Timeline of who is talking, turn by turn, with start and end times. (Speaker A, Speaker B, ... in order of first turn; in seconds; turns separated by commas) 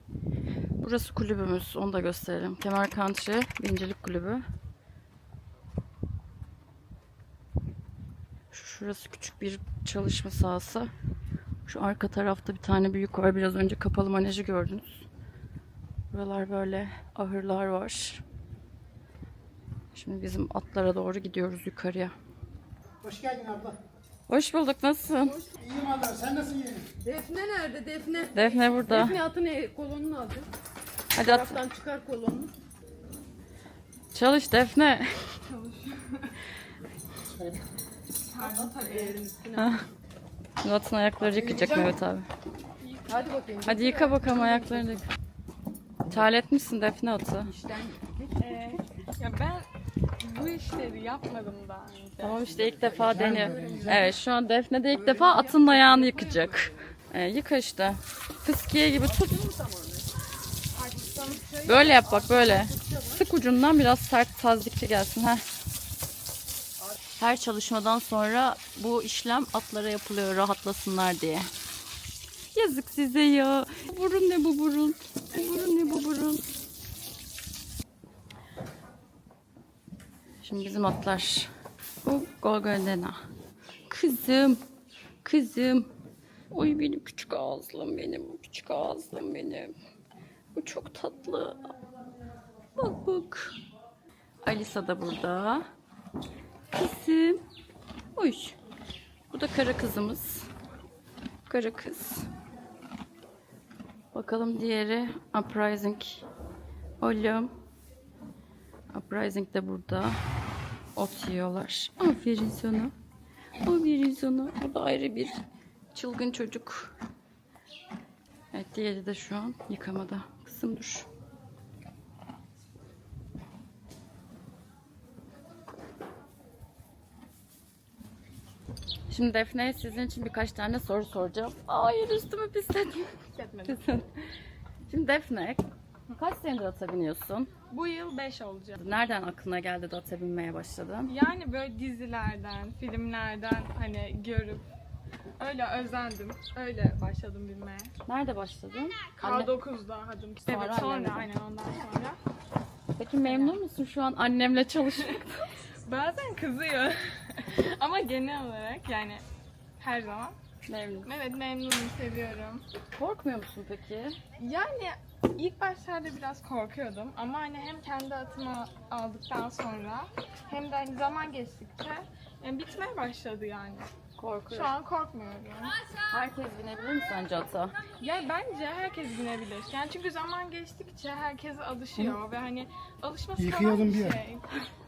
Speaker A: 0.8-4.4, Speaker A: 8.5-10.9, Speaker A: 11.7-15.1, Speaker A: 16.1-18.2, Speaker A: 19.9-22.1, Speaker B: 23.0-23.8, Speaker A: 24.3-25.4, Speaker B: 25.6-26.9, Speaker C: 27.0-30.5, Speaker A: 28.3-29.2, Speaker A: 31.1-31.6, Speaker C: 31.2-32.5, Speaker A: 34.1-35.3, Speaker C: 35.5-36.0, Speaker D: 38.3-39.2, Speaker C: 38.4-39.8, Speaker A: 39.6-39.8, Speaker A: 40.6-42.3, Speaker C: 41.2-41.9, Speaker D: 42.8-43.4, Speaker C: 43.1-45.0, Speaker A: 43.7-45.1, Speaker A: 46.1-47.5, Speaker C: 47.4-48.9, Speaker D: 48.4-49.7, Speaker D: 50.2-52.4, Speaker A: 52.2-59.4, Speaker C: 52.5-54.2, Speaker B: 52.8-54.1, Speaker C: 54.9-57.0, Speaker C: 59.0-60.1, Speaker D: 60.7-61.5, Speaker C: 61.4-63.3, Speaker A: 61.7-65.5, Speaker A: 67.2-71.5, Speaker A: 72.5-76.4, Speaker A: 80.4-81.5, Speaker A: 82.0-83.2, Speaker A: 83.9-84.6, Speaker A: 85.2-85.9, Speaker A: 86.5-89.7, Speaker A: 90.5-91.7, Speaker A: 92.8-93.5, Speaker A: 94.4-95.7, Speaker A: 96.7-97.4, Speaker A: 98.2-98.6, Speaker A: 99.3-100.5, Speaker A: 101.5-102.3, Speaker A: 104.1-106.2, Speaker A: 107.0-107.5, Speaker A: 108.9-110.2, Speaker A: 111.0-112.9, Speaker A: 113.6-115.3, Speaker A: 115.9-116.9, Speaker A: 118.5-121.1, Speaker A: 129.1-133.1, Speaker D: 133.3-133.9, Speaker A: 133.7-134.2, Speaker A: 134.9-135.6, Speaker A: 136.2-137.5, Speaker D: 137.7-138.8, Speaker A: 138.8-141.1, Speaker D: 141.1-144.7, Speaker D: 145.4-147.9, Speaker A: 148.1-149.5, Speaker D: 149.2-152.2, Speaker A: 150.5-151.3, Speaker A: 153.0-155.5, Speaker D: 153.2-153.6, Speaker D: 155.9-159.2, Speaker D: 159.8-160.3, Speaker A: 160.7-161.1, Speaker D: 161.1-162.6, Speaker A: 163.0-164.2, Speaker D: 164.4-173.9, Speaker A: 174.2-174.8, Speaker D: 174.5-175.8, Speaker A: 176.1-177.7, Speaker D: 178.0-184.5, Speaker B: 183.4-184.2